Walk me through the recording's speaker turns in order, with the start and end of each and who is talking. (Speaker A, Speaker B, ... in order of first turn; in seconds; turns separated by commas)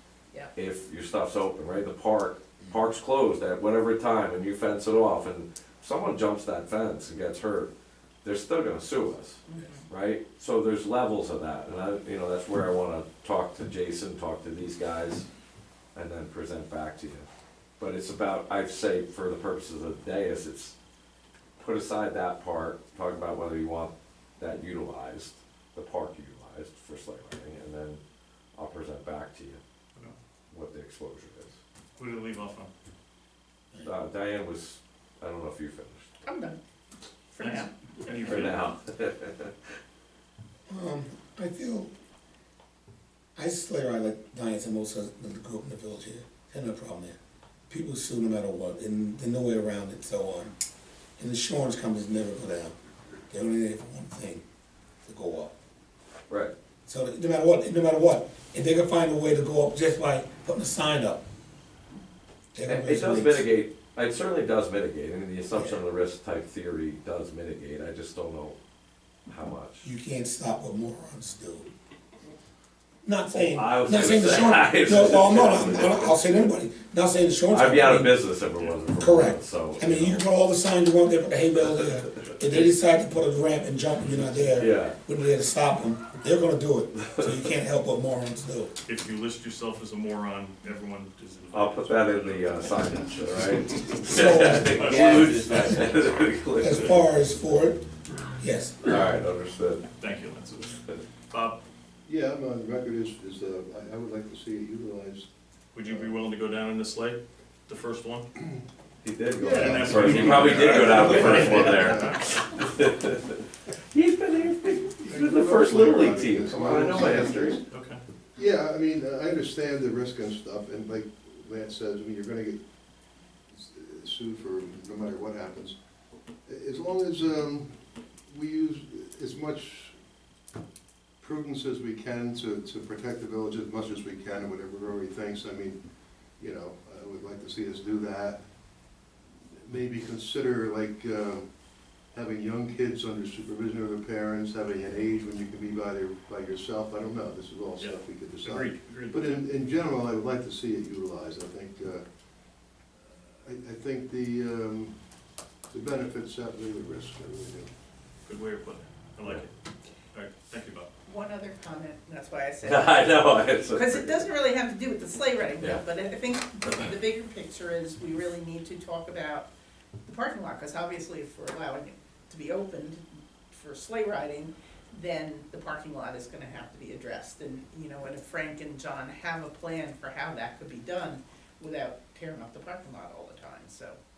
Speaker A: 0.6-7.7, Speaker A: 8.2-15.3, Speaker B: 9.5-9.8, Speaker A: 15.9-17.3, Speaker A: 17.8-20.8, Speaker A: 21.6-28.0, Speaker A: 28.6-29.6, Speaker A: 30.5-31.6, Speaker C: 32.0-32.7, Speaker A: 33.8-36.1, Speaker B: 36.2-36.6, Speaker B: 37.3-37.7, Speaker C: 37.4-38.7, Speaker A: 38.2-39.7, Speaker D: 40.7-41.9, Speaker D: 43.4-47.2, Speaker D: 47.7-50.5, Speaker D: 51.2-52.8, Speaker D: 53.3-54.4, Speaker D: 55.0-55.5, Speaker D: 56.9-61.2, Speaker D: 62.5-63.5, Speaker A: 62.7-68.6, Speaker D: 65.5-65.8, Speaker A: 69.3-69.8, Speaker D: 69.8-71.7, Speaker D: 73.0-78.2, Speaker A: 73.3-76.2, Speaker A: 77.5-80.2, Speaker D: 79.0-88.7, Speaker A: 82.5-82.7, Speaker A: 84.6-85.0, Speaker A: 87.0-87.3, Speaker C: 88.8-93.7, Speaker A: 91.5-97.0, Speaker D: 94.0-95.8, Speaker C: 94.3-96.0, Speaker D: 96.6-97.8, Speaker D: 98.4-99.1, Speaker A: 98.8-99.8, Speaker C: 100.0-100.8, Speaker C: 101.3-101.6, Speaker E: 102.0-105.3, Speaker C: 105.7-108.3, Speaker A: 109.0-113.4, Speaker E: 109.4-112.2, Speaker C: 109.5-112.2, Speaker A: 113.9-117.6, Speaker E: 115.0-117.7, Speaker C: 117.7-118.0, Speaker E: 118.4-122.6, Speaker E: 123.5-125.8, Speaker E: 126.5-127.8, Speaker E: 128.3-129.9, Speaker E: 131.2-135.8, Speaker E: 136.4-138.4, Speaker E: 139.3-141.5, Speaker E: 142.1-152.0, Speaker C: 147.8-149.4, Speaker E: 152.9-154.9, Speaker E: 155.7-157.7, Speaker C: 158.2-159.5, Speaker C: 160.1-160.9, Speaker B: 161.1-169.5, Speaker A: 162.6-164.3, Speaker B: 170.1-184.0